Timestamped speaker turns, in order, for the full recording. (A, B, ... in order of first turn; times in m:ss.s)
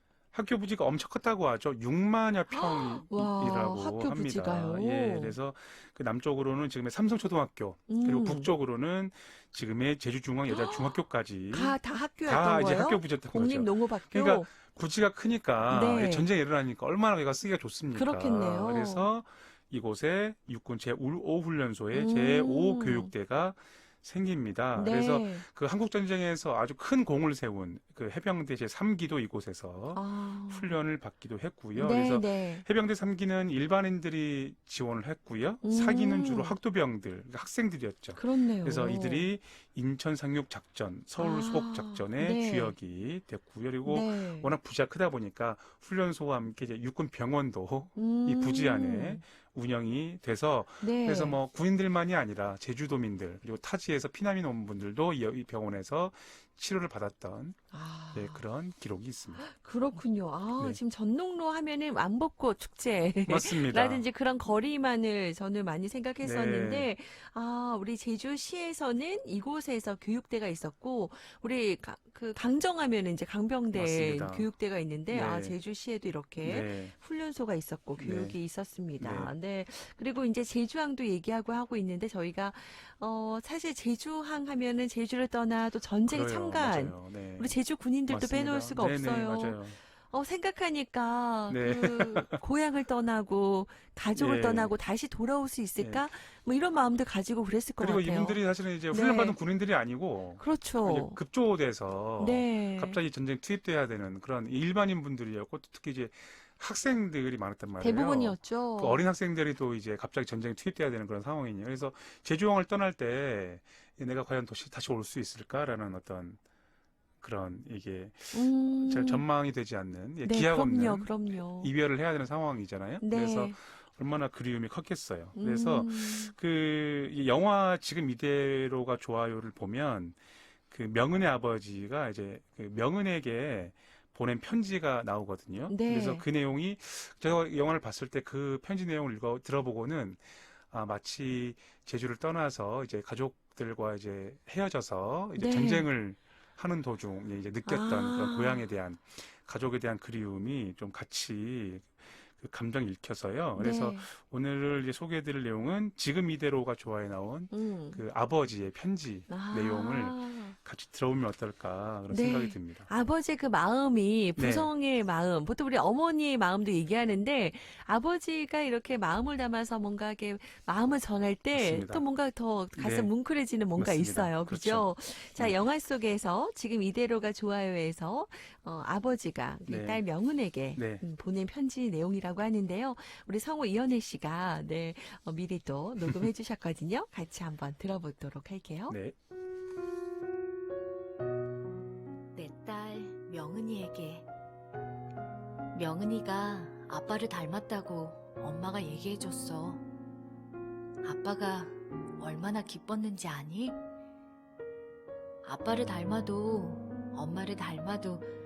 0:00.3-0:57.6 A
0:02.5-0:05.3 B
0:07.9-0:08.5 B
0:10.5-0:11.0 B
0:11.5-0:14.5 B
0:15.7-0:16.3 B
0:17.9-0:19.0 B
0:21.9-0:23.1 B
0:24.7-0:25.4 B
0:29.9-0:30.8 B
0:31.8-0:32.6 B
0:35.6-0:36.5 B
0:38.1-0:39.3 B
0:41.2-0:42.7 B
0:43.8-0:44.5 B
0:48.0-0:49.2 B
0:50.8-0:51.4 B
0:57.7-0:58.4 B
0:58.1-0:59.5 A
0:59.4-1:38.4 B
1:03.3-1:04.0 A
1:06.2-1:06.9 A
1:13.7-1:14.5 A
1:15.1-1:15.6 A
1:16.4-1:16.9 A
1:18.0-1:18.4 A
1:19.0-1:19.3 A
1:26.1-1:27.5 A
1:28.1-1:29.8 A
1:31.5-1:32.4 A
1:34.1-1:34.7 A
1:35.8-1:36.1 A
1:37.8-1:56.4 A
1:38.9-1:39.4 B
1:40.4-1:41.2 B
1:42.2-1:43.0 B
1:47.8-1:49.1 B
1:57.2-2:10.2 A
1:58.3-1:59.2 B
2:00.2-2:01.7 B
2:03.0-2:03.6 B
2:05.4-2:06.3 B
2:10.7-2:42.9 A
2:15.7-2:16.2 B
2:25.4-2:25.8 B
2:27.6-2:28.7 B
2:33.6-2:34.1 B
2:37.5-2:38.0 B
2:39.3-2:40.6 B
2:42.1-3:09.0 B
2:44.4-2:44.7 A
2:51.5-2:52.0 A
2:52.8-2:53.1 A
2:53.8-2:55.6 A
2:59.7-3:00.0 A
3:00.8-3:01.0 A
3:08.9-3:09.1 A
3:12.3-3:14.3 C
3:15.7-3:19.8 C
3:21.0-3:23.8 C
3:25.4-3:28.3 C